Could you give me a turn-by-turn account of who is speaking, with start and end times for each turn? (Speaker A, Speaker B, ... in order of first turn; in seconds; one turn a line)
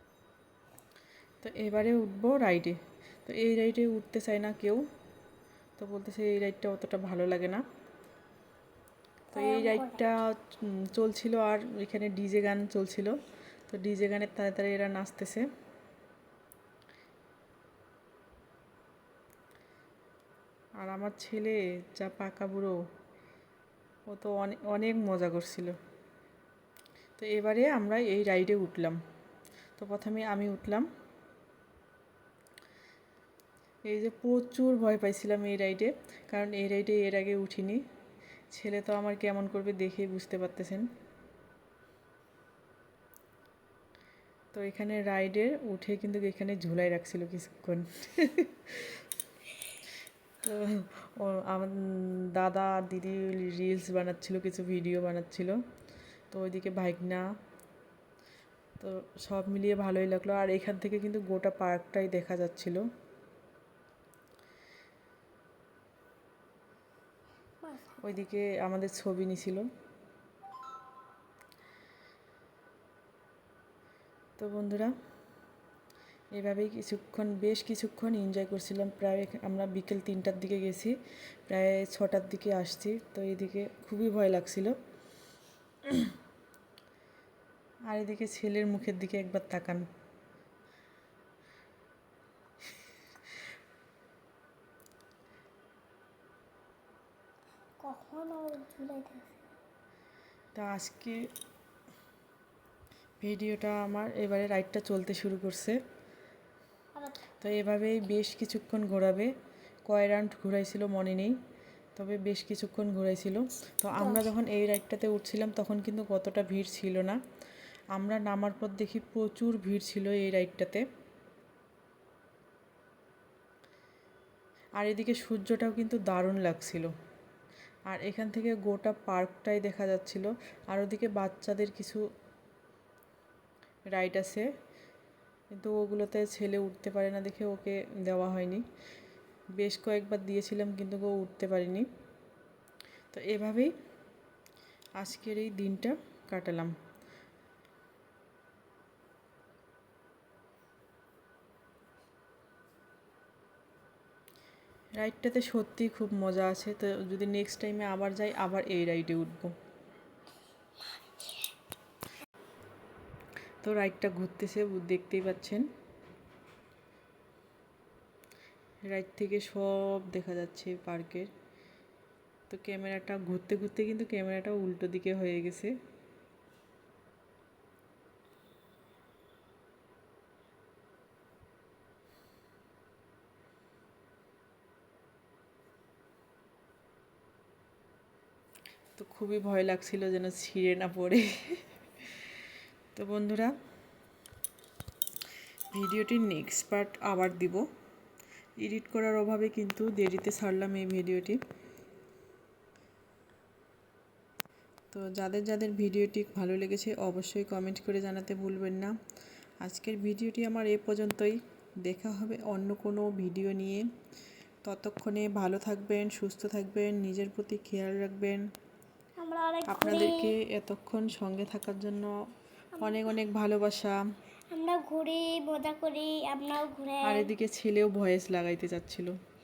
Speaker A: 1.4-4.8
Speaker A: 5.8-7.6
Speaker A: 9.3-13.2
Speaker B: 9.3-10.0
Speaker A: 13.7-15.4
Speaker A: 20.8-22.8
Speaker A: 24.1-25.8
Speaker A: 27.2-29.0
Speaker A: 29.8-30.9
Speaker A: 33.9-37.8
Speaker A: 38.5-40.9
Speaker A: 44.5-49.0
Speaker A: 50.4-55.6
Speaker A: 56.3-57.3
Speaker A: 58.8-62.8
Speaker A: 68.0-69.7
Speaker A: 74.4-74.9
Speaker A: 76.3-81.0
Speaker A: 81.5-84.8
Speaker A: 87.9-89.9
Speaker B: 97.8-99.4
Speaker A: 100.5-101.2
Speaker A: 103.2-105.8
Speaker B: 107.0-107.3
Speaker A: 107.4-109.3
Speaker A: 109.9-111.3
Speaker A: 112.0-117.2
Speaker B: 113.9-114.3
Speaker A: 117.9-120.8
Speaker A: 124.8-126.9
Speaker A: 127.9-132.0
Speaker A: 133.9-134.5
Speaker A: 135.5-138.6
Speaker A: 139.6-141.9
Speaker A: 143.1-143.7
Speaker A: 145.0-146.8
Speaker A: 155.0-159.5
Speaker B: 160.9-161.5
Speaker A: 163.6-165.7
Speaker A: 168.9-171.3
Speaker A: 172.5-175.7
Speaker A: 189.0-191.7
Speaker A: 192.9-193.5
Speaker A: 195.7-197.6
Speaker A: 198.6-201.4
Speaker A: 204.9-208.9
Speaker A: 209.6-213.8
Speaker A: 214.6-218.4
Speaker B: 219.2-220.4
Speaker A: 219.7-222.1
Speaker B: 222.8-223.1
Speaker A: 222.8-224.0
Speaker B: 224.5-227.3
Speaker A: 227.0-229.2